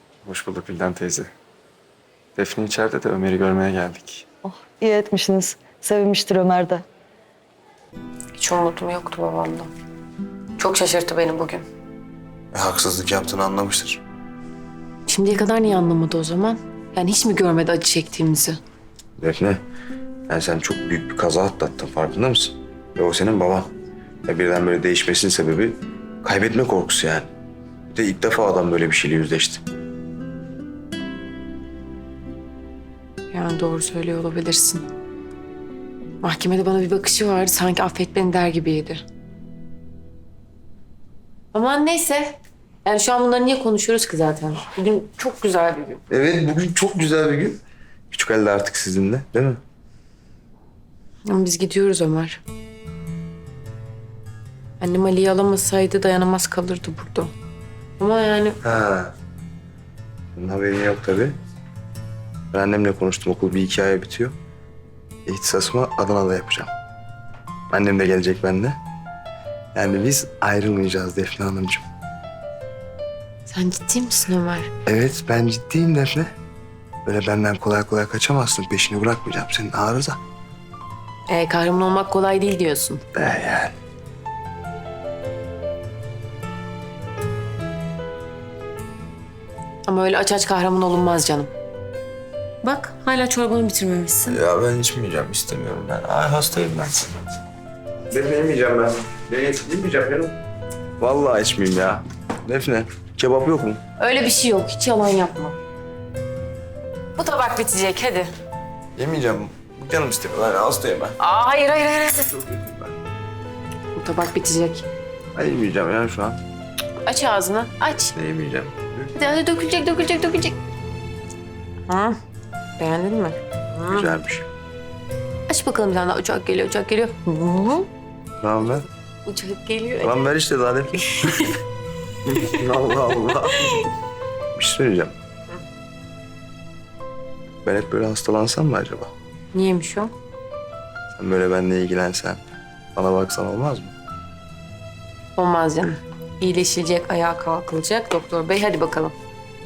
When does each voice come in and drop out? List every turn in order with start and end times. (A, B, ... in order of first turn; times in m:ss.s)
0:00.2-0:01.3 A
0:02.4-0:04.2 A
0:04.4-0:06.8 B
0:08.4-0:09.7 C
0:10.6-0:11.6 C
0:12.5-0:14.0 D
0:15.1-0:18.6 C
0:19.2-0:19.6 D
0:20.3-0:23.7 D
0:24.2-0:27.3 D
0:27.9-0:29.6 D
0:33.3-0:34.9 C
0:36.2-0:39.0 C
0:41.5-0:46.0 C
0:46.1-0:47.6 D
0:48.1-0:49.6 D
0:51.2-0:52.4 C
0:54.8-0:57.3 C
0:58.0-0:58.6 C
0:58.6-0:59.1 D
1:00.4-1:01.3 D
1:02.5-1:04.3 D
1:05.2-1:06.7 D
1:07.7-1:08.8 D
1:09.7-1:11.8 D
1:13.5-1:14.7 C
1:14.8-1:16.3 D
1:17.0-1:20.2 D
1:21.3-1:23.0 C
1:23.1-1:23.7 D
1:29.9-1:31.5 C
1:32.6-1:34.4 C
1:34.2-1:37.1 D
1:38.1-1:40.4 D
1:41.0-1:43.8 D
1:44.0-1:45.6 C
1:47.2-1:48.3 C
1:49.0-1:51.2 D
1:51.2-1:52.4 C
1:52.3-1:52.9 D
1:53.9-1:54.8 C
1:55.3-1:56.4 D
1:57.0-1:58.2 C
1:58.1-1:59.1 D
1:59.1-2:00.6 C
2:01.9-2:02.2 C
2:02.8-2:04.1 C
2:03.9-2:04.5 D
2:05.5-2:07.9 C
2:08.4-2:08.8 D
2:08.7-2:10.2 C
2:10.0-2:11.2 D
2:11.0-2:11.6 C
2:12.3-2:13.8 D
2:12.3-2:13.9 C
2:14.5-2:15.1 D
2:17.6-2:19.1 D
2:19.5-2:20.1 C
2:21.2-2:22.4 D
2:22.9-2:23.9 D
2:25.4-2:29.1 C